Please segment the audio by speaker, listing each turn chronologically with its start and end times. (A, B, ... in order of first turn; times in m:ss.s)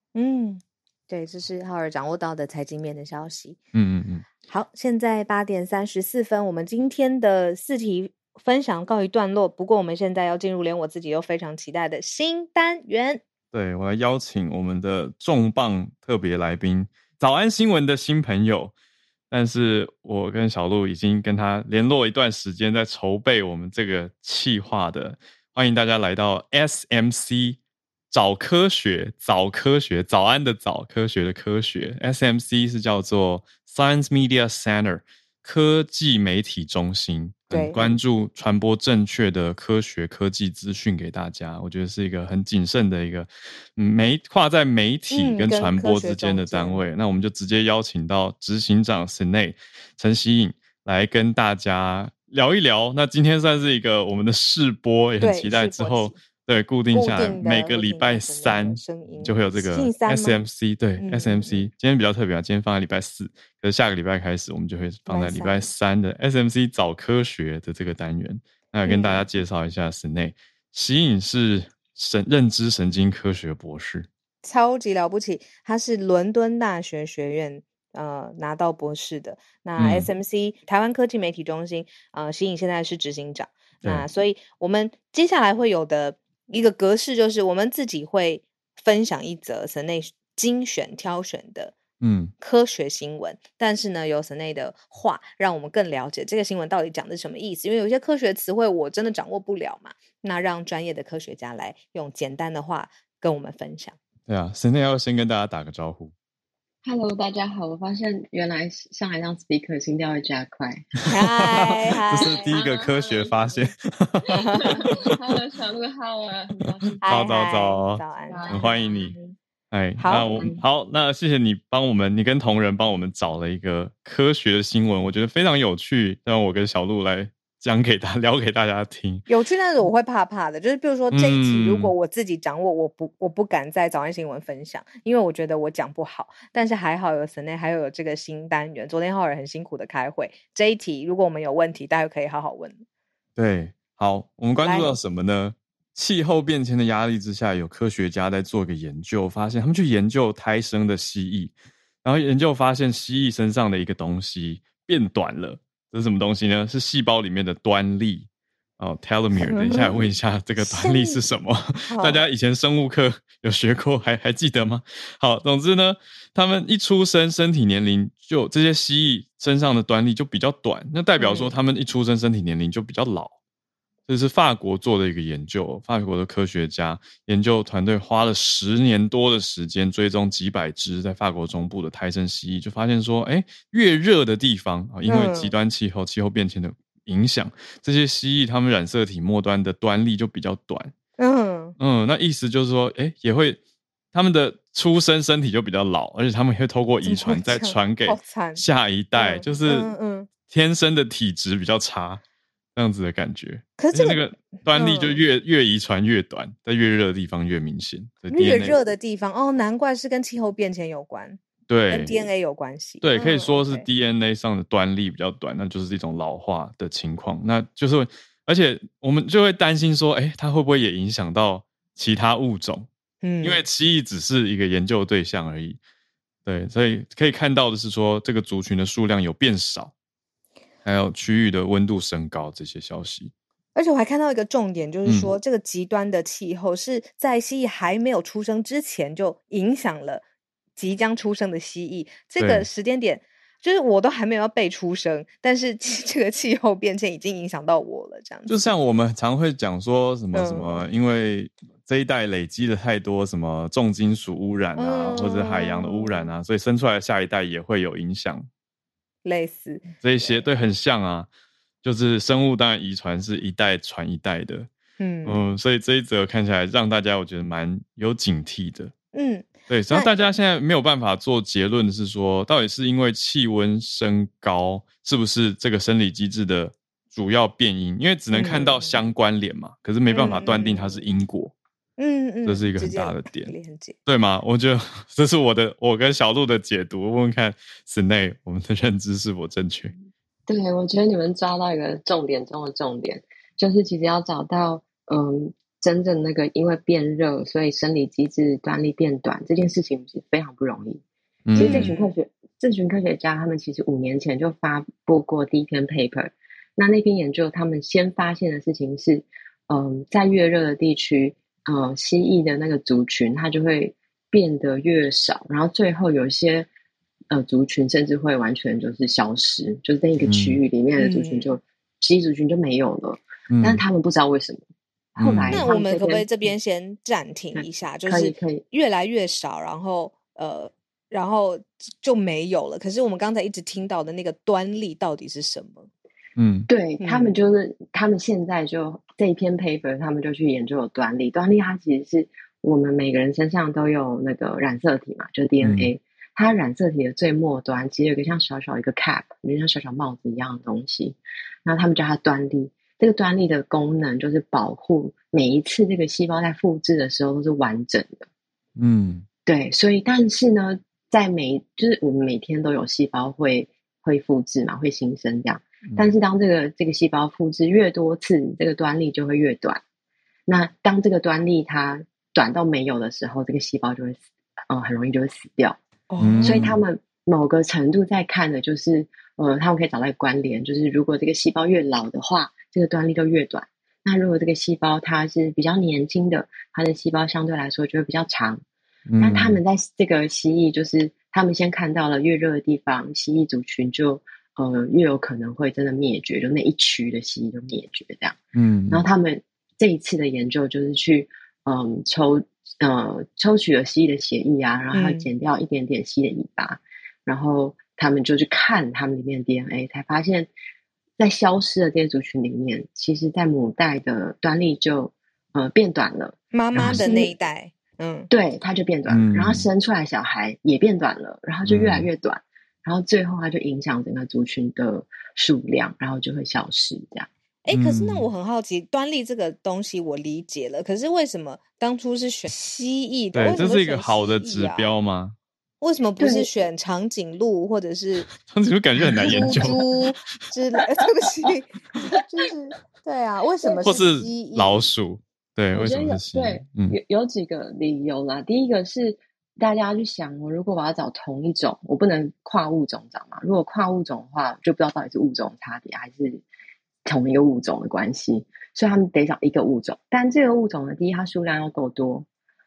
0:00.1-0:03.6 A
0:03.7-0:04.2 B
0:04.5-0:13.2 A
0:13.5-0:18.7 B
0:19.3-0:27.6 B
0:28.1-1:14.1 B
0:37.5-0:37.8 A
0:45.1-0:46.8 A
0:55.2-0:56.2 A
0:56.9-1:00.4 A
1:01.0-1:01.7 A
1:05.1-1:05.6 A
1:08.8-1:09.3 A
1:14.4-1:31.8 A
1:19.8-1:20.1 B
1:32.0-1:32.3 B
1:32.4-1:44.0 A
1:44.3-1:46.1 B
1:46.8-1:51.0 C
1:51.1-1:52.5 A
1:51.4-1:55.1 B
1:51.6-1:53.7 C
1:54.3-1:57.0 C
1:54.3-1:54.7 A
1:57.0-1:58.7 A
1:57.0-1:59.1 B
1:58.3-1:59.4 C
1:59.7-2:09.2 B
2:00.0-2:00.4 A
2:00.2-2:00.6 C
2:09.3-2:22.8 A
2:11.1-2:11.9 B
2:23.4-2:38.3 B
2:24.6-2:24.9 A
2:38.8-2:53.4 B
2:39.5-2:40.0 A
2:40.6-2:41.2 A
2:41.9-2:42.2 A
2:51.2-2:51.5 A
2:54.1-3:10.9 B
3:05.1-3:05.5 A
3:11.2-3:11.8 A
3:11.8-3:13.6 B
3:14.1-3:19.9 B
3:17.0-3:18.6 A
3:19.1-3:20.3 A
3:20.4-3:22.2 B
3:22.8-3:28.8 B
3:23.8-3:25.2 A
3:28.3-3:33.8 A
3:31.7-3:32.2 B
3:33.0-3:42.9 B
3:43.2-3:43.6 A
3:43.4-3:45.8 B
3:46.4-3:49.9 B
3:50.8-3:53.3 B
3:53.7-4:00.2 A
3:55.0-3:55.3 B
4:00.8-4:08.7 A
4:02.4-4:02.7 B
4:08.5-4:18.5 B
4:10.3-4:10.8 A
4:14.8-4:16.3 A
4:19.2-4:20.4 A
4:20.0-4:21.3 B
4:21.8-4:24.7 B
4:25.0-4:25.4 A
4:25.2-4:28.9 B
4:29.1-4:30.1 A
4:29.7-4:41.5 B
4:38.3-4:38.9 A
4:40.1-4:41.0 A
4:42.0-4:44.0 A
4:42.4-4:43.5 B
4:44.0-4:49.9 B
4:50.5-5:16.7 C
5:01.4-5:01.9 B
5:01.6-5:02.1 A
5:17.3-5:24.6 C
5:20.2-5:20.6 B
5:21.0-5:21.5 A
5:23.5-5:23.8 B
5:25.1-5:26.5 C
5:25.2-5:25.6 B
5:25.5-5:35.9 A
5:27.5-5:28.6 C
5:36.4-5:36.7 B
5:36.7-5:58.3 C
5:37.0-5:37.3 A
5:45.6-5:45.9 B
5:58.8-5:59.2 B
5:59.4-6:09.8 C
6:10.5-6:15.8 C
6:16.1-6:16.7 A
6:16.2-6:16.8 B
6:16.4-6:28.6 C
6:29.1-6:29.6 B
6:29.2-6:38.4 C
6:38.5-6:39.0 B
6:38.9-6:50.5 C
6:44.9-6:45.3 A
6:51.2-6:57.3 C
6:56.5-6:58.3 A
6:56.7-6:57.1 B
6:58.3-7:07.3 C
6:59.1-6:59.7 B
7:01.6-7:02.1 B
7:07.6-7:14.9 A
7:07.7-7:08.3 B
7:13.3-7:15.4 B
7:15.8-7:18.3 A
7:16.2-7:16.5 C
7:18.3-7:19.8 B
7:19.2-7:19.8 C
7:19.2-7:24.8 A
7:23.8-7:27.0 B
7:25.7-7:36.4 C
7:37.0-7:42.2 C